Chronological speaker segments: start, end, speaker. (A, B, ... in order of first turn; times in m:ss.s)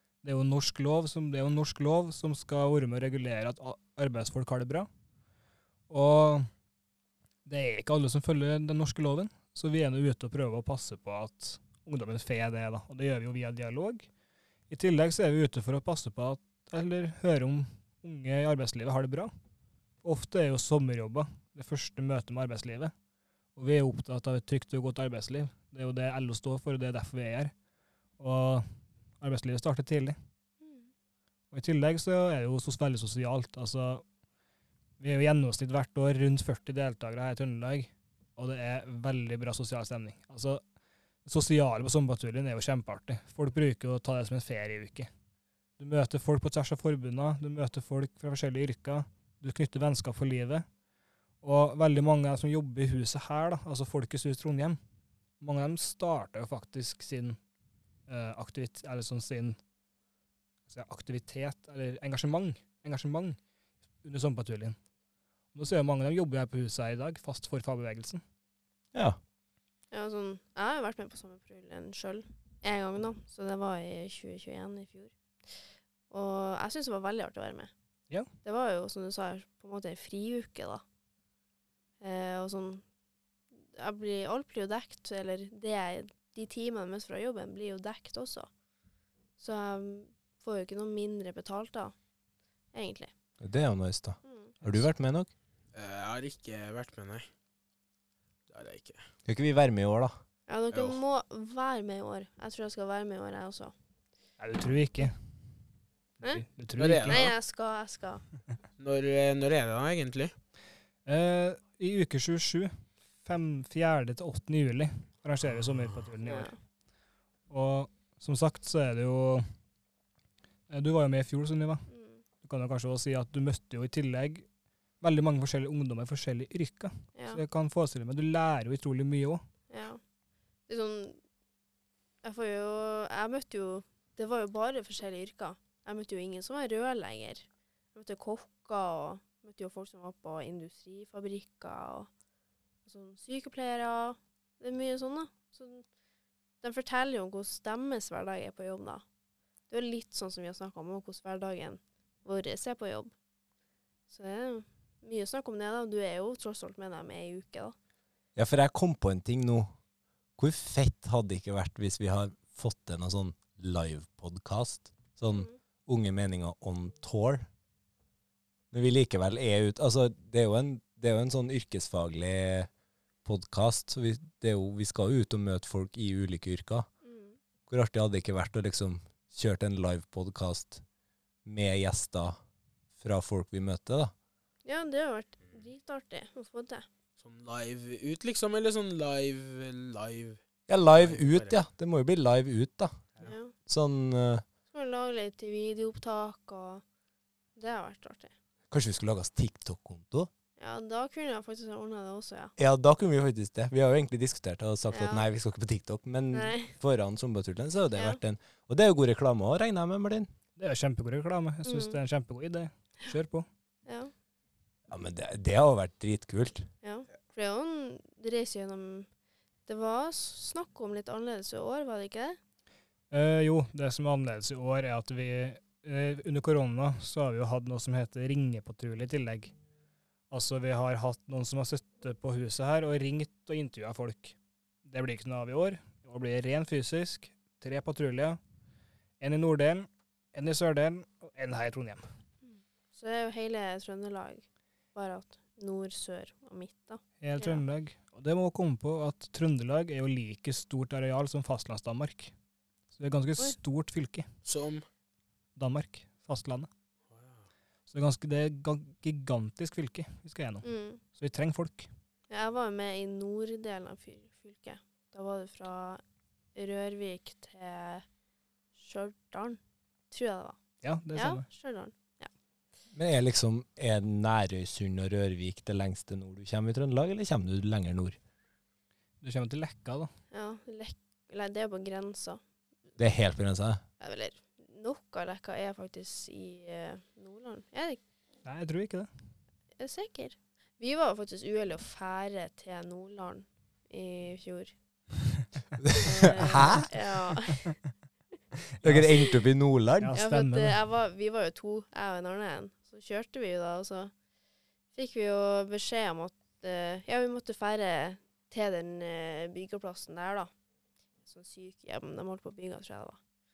0:00.2-0:04.9 A
0:05.9-0:06.5 A
0:07.4-0:14.1 A
0:14.7-0:19.3 A
0:20.0-0:22.9 A
0:23.6-0:27.5 A
0:28.2-0:28.6 A
0:29.2-0:30.2 A
0:30.6-0:30.9 B
0:31.5-0:34.0 A
0:35.0-0:40.6 A
0:41.2-0:45.1 A
0:45.8-0:50.6 A
0:51.4-0:54.8 A
0:55.4-0:57.4 A
0:58.1-0:59.6 A
1:00.7-1:03.4 A
1:04.0-1:04.8 A
1:05.5-1:08.2 A
1:09.9-1:15.6 B
1:16.1-1:17.7 B
1:18.4-1:20.8 B
1:22.0-1:22.8 B
1:23.5-1:28.5 B
1:29.4-1:31.9 B
1:32.7-1:33.1 B
1:33.4-1:35.3 C
1:34.2-1:34.5 B
1:34.6-1:34.9 A
1:35.7-1:37.3 D
1:38.5-1:39.0 D
1:39.3-1:40.1 C
1:40.5-1:43.7 B
1:40.7-1:41.0 D
1:44.4-1:45.2 A
1:46.2-1:47.2 A
1:46.8-1:47.4 D
1:47.1-1:48.2 B
1:48.8-1:50.4 D
1:51.1-1:56.5 A
1:56.2-1:56.6 B
1:57.5-1:59.4 A
2:00.7-2:01.8 A
2:01.9-2:02.2 B
2:02.4-2:04.5 A
2:05.0-2:09.4 A
2:07.2-2:07.4 B
2:09.7-2:10.0 B
2:10.7-2:11.2 B
2:12.2-2:22.1 B
2:22.9-2:25.9 B
2:26.6-2:29.0 B
2:29.7-2:33.1 B
2:34.1-2:37.8 B
2:38.4-2:39.7 C
2:40.4-2:47.5 C
2:45.3-2:45.6 B
2:48.7-2:52.7 C
2:53.2-2:56.9 C
2:57.0-2:57.4 B
2:57.7-3:00.8 C
3:01.4-3:02.4 C
3:03.0-3:04.1 C
3:04.6-3:06.9 B
3:07.2-3:11.6 D
3:10.7-3:13.1 C
3:13.2-3:13.5 B
3:13.7-3:14.4 C
3:14.7-3:16.8 B
3:17.6-3:18.3 B
3:18.7-3:20.3 C
3:20.6-3:22.5 B
3:22.6-3:30.3 C
3:24.9-3:25.3 B
3:26.3-3:26.7 B
3:30.6-3:33.5 A
3:31.6-3:32.0 B
3:33.9-3:34.1 B
3:34.9-3:36.7 C
3:36.8-3:39.1 B
3:39.7-3:42.4 B
3:43.1-3:49.6 A
3:50.3-3:58.4 A
3:59.2-4:02.0 A
4:02.4-4:07.6 B
4:07.2-4:12.3 A
4:12.9-4:14.3 A
4:14.4-4:14.9 D
4:15.6-4:16.7 A
4:17.1-4:17.5 D
4:17.9-4:21.9 A
4:20.6-4:21.0 B
4:22.3-4:26.0 B
4:26.6-4:28.0 B
4:28.8-4:29.6 B
4:30.1-4:30.6 B
4:30.8-4:31.4 A
4:31.2-4:32.3 B
4:32.9-4:38.2 C
4:39.2-4:40.1 A
4:40.3-4:42.4 B
4:43.0-4:43.8 C
4:44.0-4:48.0 B
4:48.4-4:49.1 A
4:49.8-4:54.7 B
4:55.9-4:56.8 C
4:56.0-4:57.8 B
4:56.6-4:56.9 A
4:58.8-4:59.4 A
4:58.8-5:00.2 C
5:00.0-5:00.8 A
5:00.1-5:04.1 B
5:04.9-5:10.5 B
5:11.2-5:13.2 B